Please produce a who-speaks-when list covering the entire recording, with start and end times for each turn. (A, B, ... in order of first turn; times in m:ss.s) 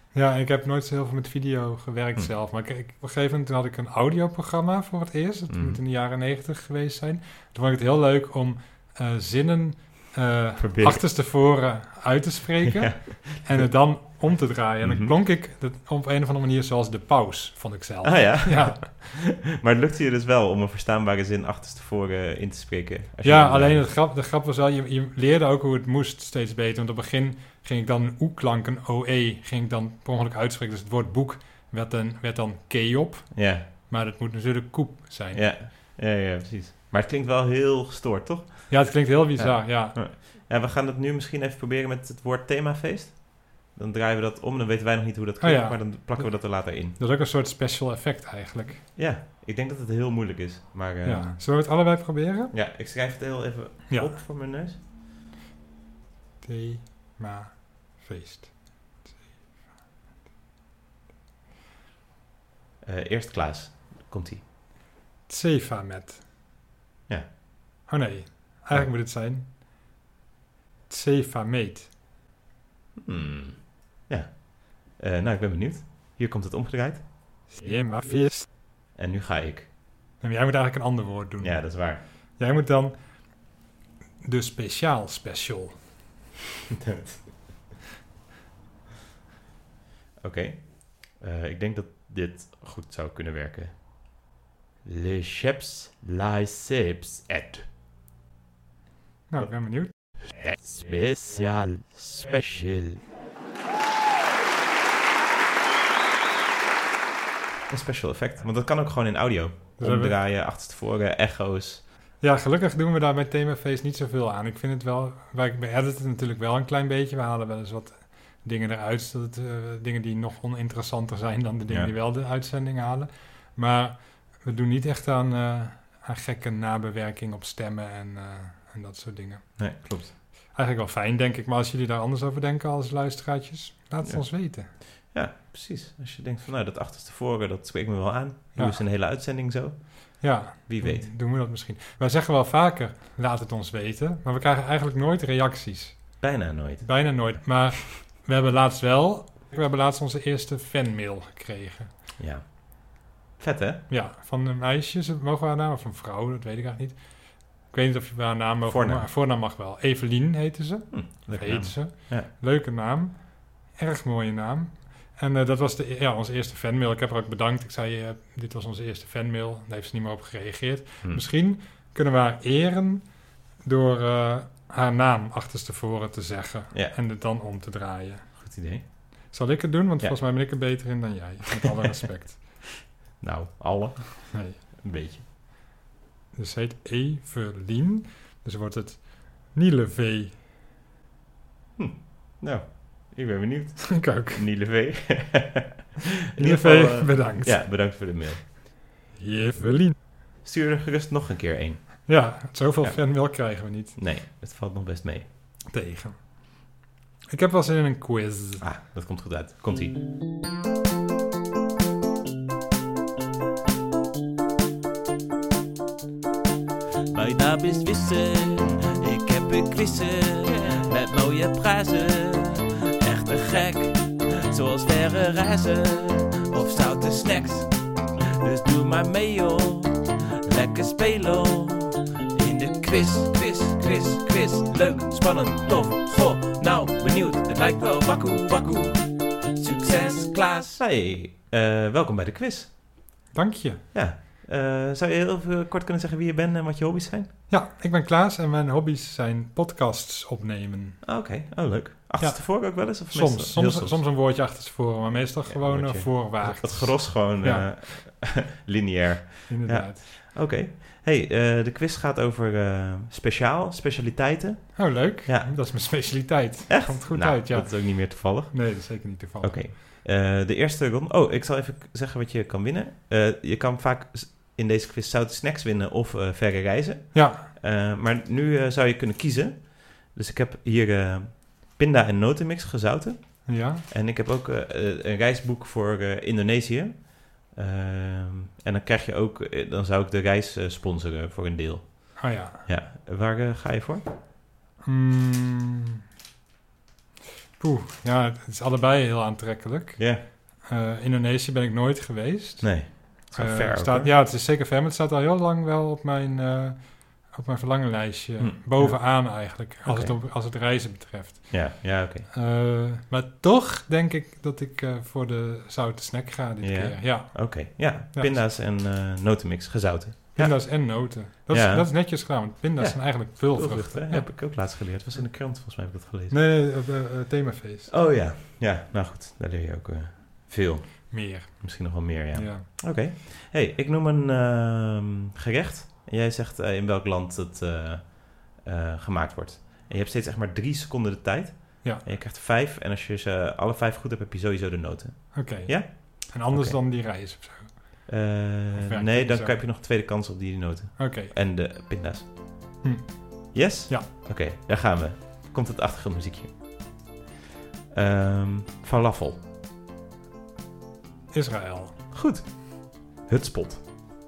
0:00.1-0:18.8 A
0:05.5-0:05.8 B
0:10.6-0:11.1 B
0:12.6-0:15.2 B
0:18.0-0:23.9 B
0:23.2-0:35.5 A
0:33.3-0:33.6 B
0:35.3-0:47.0 B
0:38.7-0:40.0 A
0:45.4-0:48.8 A
0:48.9-0:51.4 B
0:51.0-0:52.5 A
0:52.5-0:54.8 B
0:53.9-0:54.2 A
0:56.4-0:59.3 A
1:02.8-1:04.4 B
1:05.3-1:06.2 A
1:07.9-1:09.6 A
1:10.9-1:11.9 A
1:13.0-1:17.1 B
1:17.5-1:18.5 A
1:18.9-1:19.7 B
1:20.2-1:23.5 A
1:21.4-1:22.0 B
1:24.2-1:25.9 A
1:26.8-1:27.3 B
1:30.2-1:33.8 B
1:34.8-1:37.7 B
1:39.3-1:39.9 A
1:40.0-1:43.0 B
1:47.7-1:51.8 B
1:49.8-1:50.2 A
1:52.2-2:09.8 A
2:09.6-2:10.1 B
2:10.5-2:14.7 A
2:14.0-2:21.1 B
2:18.5-2:18.8 A
2:20.2-2:26.3 A
2:26.2-2:27.4 B
2:26.8-2:31.9 A
2:32.2-2:33.8 B
2:33.9-2:58.4 A
2:38.6-2:39.1 B
2:40.9-2:42.3 B
2:58.4-2:58.9 B
2:59.3-3:02.7 A
3:03.2-3:05.2 B
3:04.3-3:04.6 A
3:06.3-3:10.4 A
3:11.8-3:18.7 B
3:13.9-3:14.4 A
3:16.4-3:17.8 A
3:19.1-3:20.0 A
3:20.4-3:22.3 B
3:22.1-3:24.0 A
3:22.8-3:25.2 B
3:25.7-3:26.8 A
3:27.3-3:28.6 A
3:28.6-3:30.0 B
3:37.1-3:47.8 C
3:48.4-4:00.8 C
4:00.8-4:03.0 B
4:03.3-4:03.8 A
4:03.9-4:07.3 B
4:07.5-4:11.0 A
4:11.0-4:14.0 B
4:12.2-4:17.7 A
4:15.5-4:26.2 B
4:19.5-4:20.0 A
4:24.8-4:29.7 A
4:26.7-4:54.1 B
4:37.1-4:37.5 A
4:43.4-4:43.8 A
4:52.2-4:52.6 A
4:54.8-4:55.9 A
4:57.6-5:18.4 A
5:00.0-5:00.2 B
5:02.6-5:04.1 B
5:08.4-5:10.2 B
5:11.5-5:12.3 B
5:16.6-5:26.4 B
5:20.4-5:24.8 A
5:26.3-5:27.9 A
5:27.9-5:46.8 B
5:31.1-5:32.8 A
5:45.3-5:48.1 A
5:48.1-5:52.3 B
5:48.8-5:49.6 A
5:51.0-5:51.3 A
5:52.8-5:54.1 A
5:53.5-5:56.6 B
5:57.9-5:59.4 B
6:01.3-6:02.0 A
6:02.1-6:03.8 B